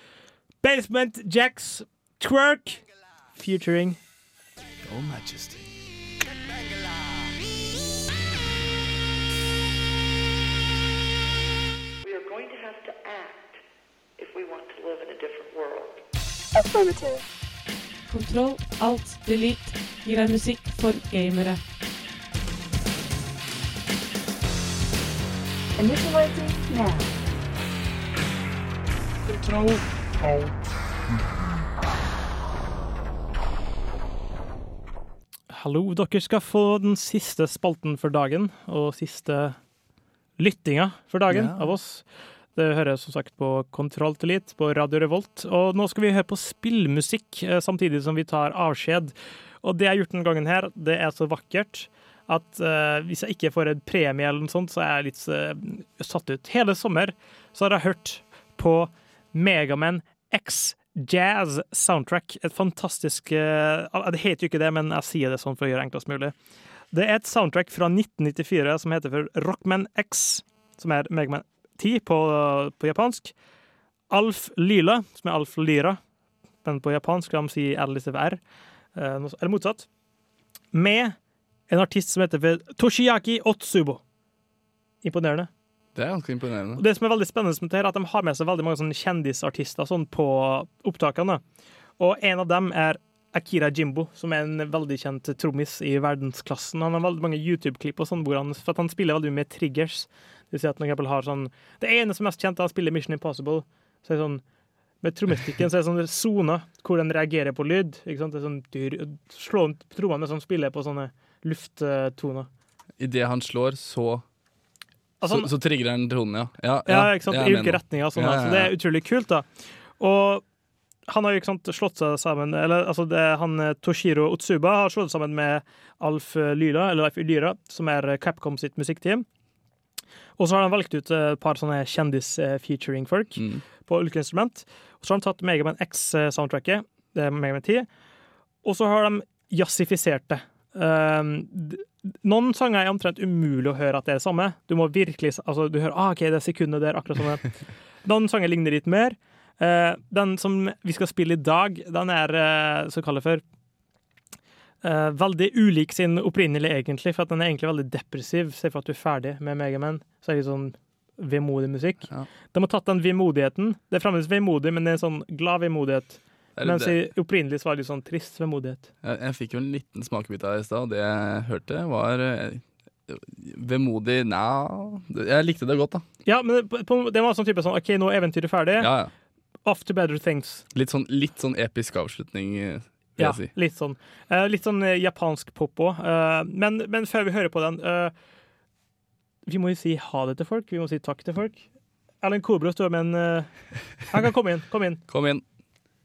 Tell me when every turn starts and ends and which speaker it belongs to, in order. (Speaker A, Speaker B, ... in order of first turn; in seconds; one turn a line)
Speaker A: 0.6-4.0
Speaker B: 4.8-5.7
Speaker C: 12.0-13.6
Speaker C: 14.2-16.0
Speaker D: 16.5-17.2
Speaker E: 18.1-21.6
Speaker D: 25.8-27.1
Speaker E: 29.2-29.8
Speaker A: 35.5-39.6
Speaker A: 40.4-42.0
Speaker B: 41.3-41.7
Speaker A: 42.5-66.3
Speaker A: 66.9-73.3
Speaker A: 74.1-76.0
Speaker A: 76.6-78.4
Speaker A: 78.9-79.9
Speaker A: 80.7-81.2
Speaker A: 81.7-84.0
Speaker A: 85.0-85.5
Speaker B: 85.9-86.8
Speaker A: 86.8-91.4
Speaker A: 92.0-104.4
Speaker A: 105.0-112.5
Speaker B: 113.0-114.2
Speaker A: 115.2-115.5
Speaker B: 115.3-118.7
Speaker A: 116.8-119.5
Speaker A: 120.0-120.4
Speaker A: 121.1-129.2
Speaker A: 130.4-137.9
Speaker B: 133.4-133.6
Speaker A: 138.6-147.5
Speaker A: 148.0-153.4
Speaker A: 154.8-168.9
Speaker B: 166.6-167.0
Speaker B: 169.0-176.0
Speaker A: 176.2-178.9
Speaker B: 178.8-179.1
Speaker A: 179.6-180.6
Speaker B: 180.7-183.5
Speaker A: 183.2-188.1
Speaker A: 189.4-191.6
Speaker A: 192.2-193.5
Speaker A: 194.1-195.0
Speaker B: 195.1-195.4